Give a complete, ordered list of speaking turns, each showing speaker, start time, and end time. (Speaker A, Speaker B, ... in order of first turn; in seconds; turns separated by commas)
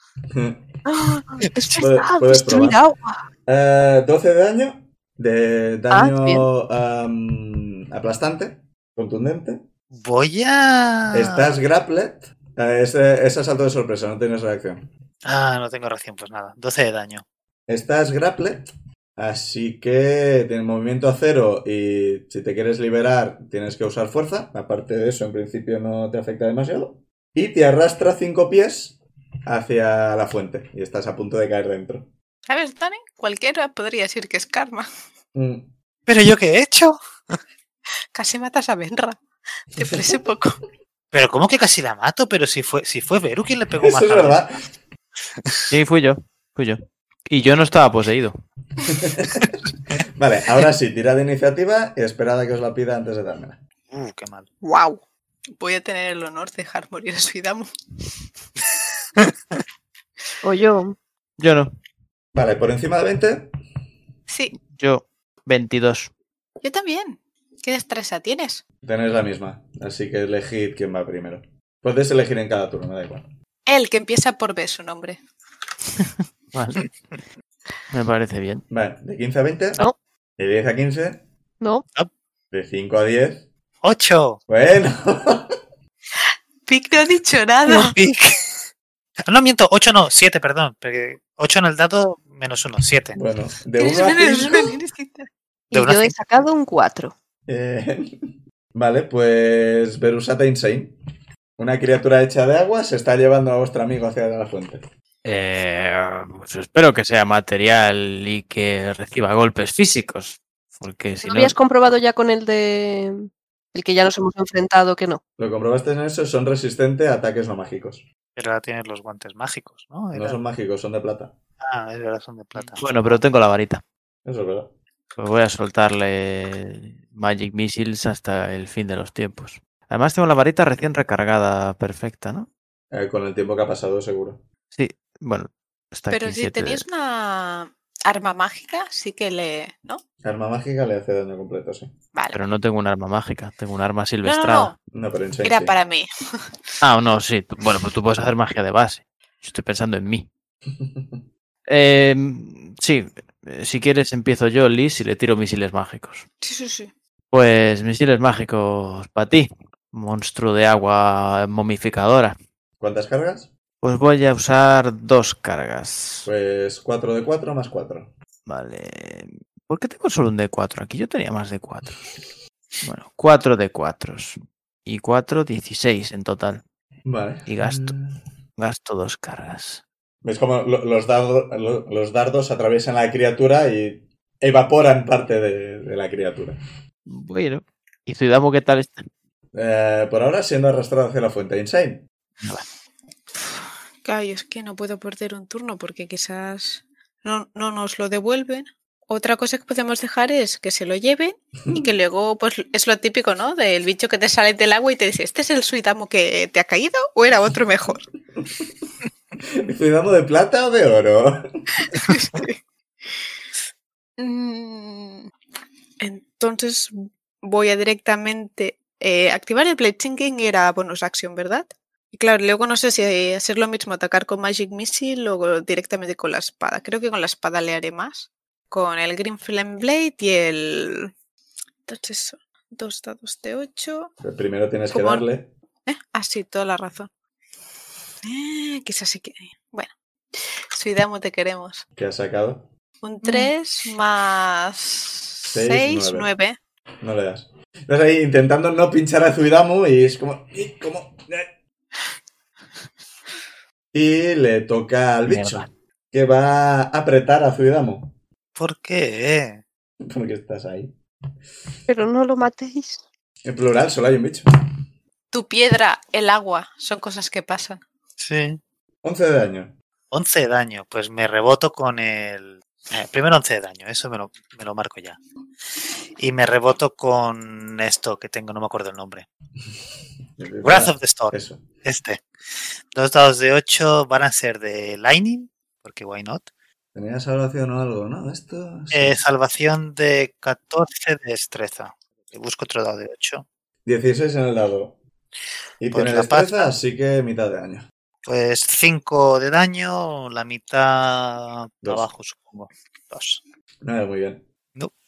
Speaker A: 0.3-0.7, Speaker B: 0.8-3.2, Speaker A: 1.8-2.8, Speaker A: 3.5-9.6, Speaker B: 5.9-6.5, Speaker C: 9.9-11.4, Speaker A: 11.1-14.9, Speaker C: 15.2-17.2, Speaker A: 17.7-32.1, Speaker D: 32.5-34.9, Speaker A: 35.3-35.7, Speaker C: 36.1-37.4, Speaker D: 38.1-39.2, Speaker D: 39.8-40.6, Speaker A: 39.8-40.0, Speaker C: 41.1-44.6, Speaker A: 43.8-44.6, Speaker E: 45.7-48.3, Speaker A: 48.9-49.5, Speaker A: 50.1-53.6, Speaker C: 53.9-54.5, Speaker D: 54.6-55.0, Speaker D: 55.6-57.7, Speaker C: 59.2-59.6, Speaker B: 60.4-61.0, Speaker E: 61.4-61.7, Speaker A: 62.3-63.5, Speaker D: 64.3-64.5, Speaker E: 64.6-66.1, Speaker D: 66.6-68.6, Speaker A: 68.8-73.3, Speaker D: 73.7-75.2, Speaker E: 76.5-76.9, Speaker E: 77.9-78.6, Speaker A: 78.7-81.2, Speaker A: 82.5-83.5, Speaker C: 83.8-84.4, Speaker A: 84.5-85.6, Speaker D: 86.7-88.0, Speaker C: 87.7-88.6, Speaker C: 89.3-93.2, Speaker A: 93.2-94.7, Speaker D: 93.8-95.3, Speaker B: 95.7-97.2, Speaker C: 95.7-96.2, Speaker A: 97.5-101.0, Speaker A: 101.6-104.9, Speaker E: 105.2-111.6, Speaker B: 111.2-115.2, Speaker A: 115.4-118.0, Speaker C: 118.4-120.4, Speaker A: 120.1-121.3, Speaker C: 121.6-123.2, Speaker E: 122.6-123.8, Speaker A: 124.2-124.7, Speaker E: 125.2-132.5, Speaker A: 132.9-134.4, Speaker E: 134.7-136.8, Speaker D: 136.1-140.0, Speaker A: 140.2-141.9, Speaker D: 142.1-142.4, Speaker E: 142.3-144.8, Speaker D: 144.2-144.8, Speaker A: 144.9-145.7, Speaker D: 145.4-146.5, Speaker E: 146.8-150.3, Speaker A: 150.7-151.2, Speaker E: 151.7-156.3, Speaker D: 156.4-156.9, Speaker E: 157.3-162.3, Speaker A: 162.8-163.5, Speaker E: 163.8-166.3, Speaker A: 166.3-168.1, Speaker E: 168.5-172.1, Speaker E: 172.8-176.6, Speaker A: 177.1-178.2, Speaker E: 177.5-177.9, Speaker E: 178.6-179.8, Speaker A: 180.2-186.6, Speaker E: 187.1-189.1, Speaker A: 189.5-192.0, Speaker D: 194.0-208.1, Speaker A: 209.6-211.4, Speaker D: 211.9-212.6, Speaker D: 214.2-215.3, Speaker D: 216.0-231.1, Speaker D: 231.9-234.1, Speaker A: 234.2-235.5, Speaker D: 234.9-235.2, Speaker D: 235.9-237.1, Speaker D: 238.2-241.8, Speaker A: 242.0-242.7, Speaker D: 243.0-246.6, Speaker A: 245.5-246.3, Speaker A: 247.0-251.6, Speaker A: 253.9-258.1, Speaker E: 255.3-255.7, Speaker C: 258.6-259.6, Speaker A: 260.0-261.0, Speaker B: 261.9-263.0, Speaker A: 263.4-264.4, Speaker D: 265.3-267.8, Speaker C: 268.2-268.6, Speaker A: 269.0-269.7, Speaker C: 270.1-275.2, Speaker C: 276.2-279.3, Speaker A: 280.4-281.6, Speaker C: 280.6-282.2, Speaker C: 282.9-286.5, Speaker A: 286.9-289.2, Speaker C: 288.9-293.5, Speaker A: 293.9-295.0, Speaker A: 295.8-297.9, Speaker C: 295.9-296.7, Speaker C: 298.2-303.4, Speaker A: 301.8-302.1, Speaker A: 303.8-304.4